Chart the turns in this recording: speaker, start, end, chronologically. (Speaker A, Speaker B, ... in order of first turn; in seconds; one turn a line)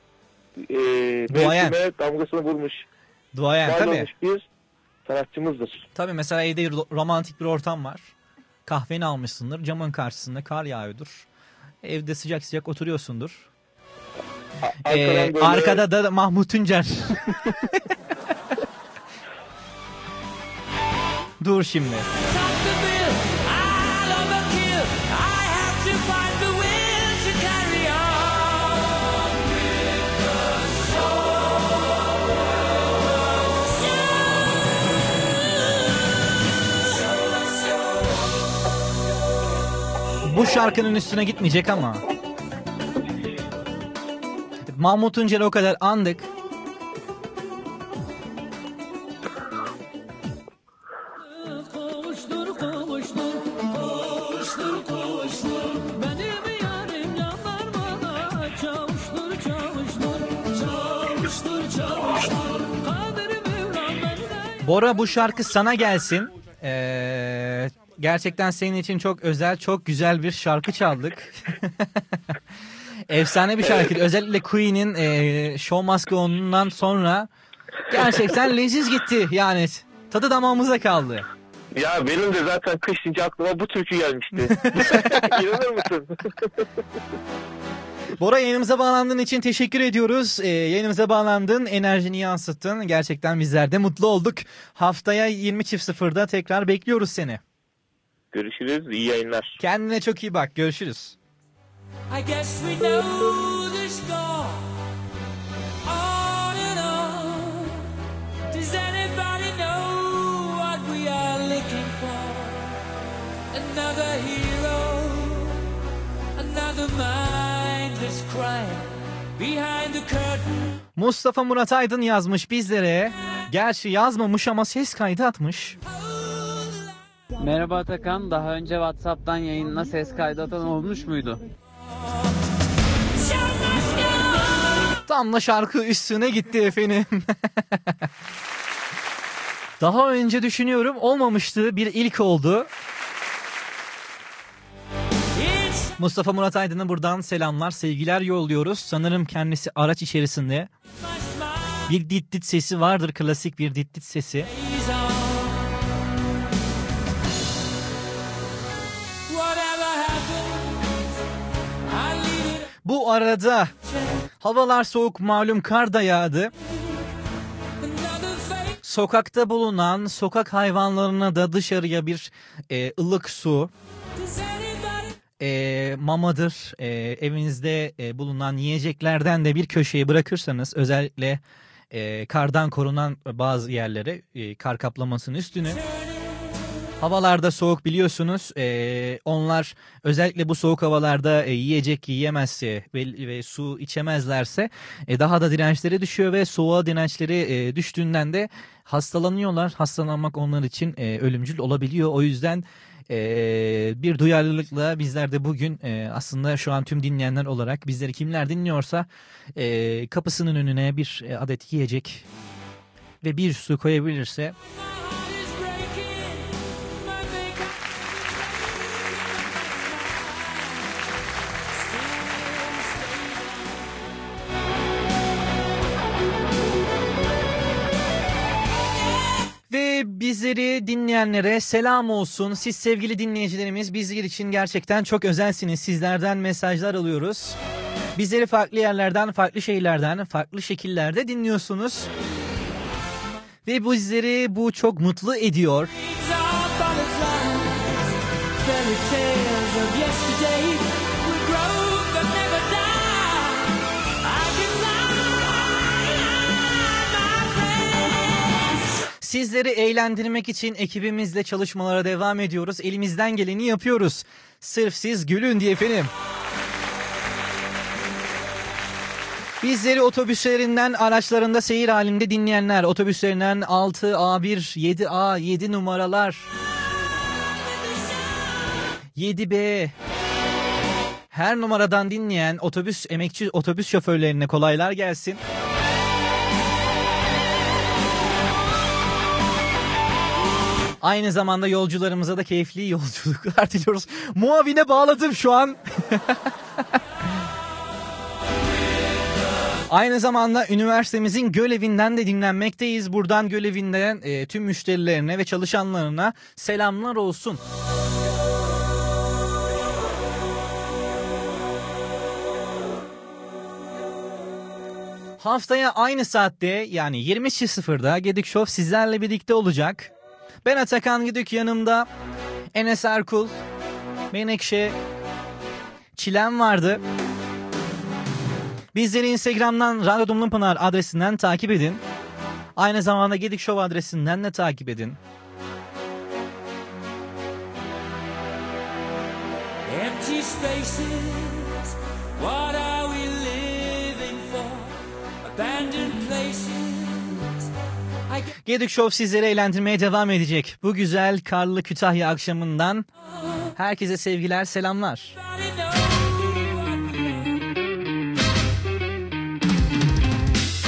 Speaker A: 0.6-2.9
Speaker B: 1.3-1.8
Speaker B: 3.3-4.1
Speaker A: 3.6-4.5
Speaker A: 5.0-5.8
Speaker B: 6.0-8.1
Speaker B: 8.7-11.3
Speaker B: 11.8-13.5
Speaker A: 14.6-15.8
Speaker B: 14.9-17.2
Speaker B: 21.4-22.1
Speaker C: 25.6-28.0
Speaker B: 40.3-42.0
Speaker B: 44.7-46.3
Speaker B: 64.6-71.7
Speaker B: 73.1-77.3
Speaker B: 77.9-81.3
Speaker A: 81.8-86.5
Speaker B: 84.5-85.2
Speaker B: 88.2-97.4
Speaker A: 98.3-99.6
Speaker B: 99.6-101.2
Speaker C: 102.1-104.5
Speaker C: 106.2-107.2
Speaker C: 108.7-112.3
Speaker C: 113.8-115.2
Speaker C: 116.7-118.1
Speaker C: 119.4-120.1
Speaker B: 121.0-125.8
Speaker D: 127.4-131.4
Speaker C: 130.2-130.8
Speaker B: 135.1-137.2
Speaker B: 139.8-142.7
Speaker B: 146.0-150.7
Speaker B: 151.9-154.5
Speaker C: 159.4-160.4
Speaker B: 162.8-163.7
Speaker B: 164.4-166.5
Speaker B: 168.8-173.7
Speaker B: 175.4-185.8
Speaker B: 187.0-212.3
Speaker B: 213.2-214.6
Speaker B: 229.7-237.6
Speaker B: 238.2-242.1
Speaker B: 243.7-245.9
Speaker C: 246.4-247.5
Speaker C: 249.2-250.8
Speaker C: 251.7-253.6
Speaker B: 259.2-266.1
Speaker B: 269.6-276.5
Speaker B: 279.2-279.9
Speaker B: 281.3-285.4
Speaker B: 291.0-296.2
Speaker B: 299.9-307.6
Speaker B: 315.4-320.1
Speaker B: 320.6-322.1
Speaker B: 322.7-323.6
Speaker B: 324.3-324.9
Speaker B: 326.2-327.0
Speaker B: 328.9-332.0
Speaker B: 332.8-335.2
Speaker C: 340.3-341.4
Speaker C: 342.5-344.8
Speaker C: 345.7-347.2
Speaker B: 348.6-353.1
Speaker B: 353.8-355.4
Speaker C: 356.1-356.5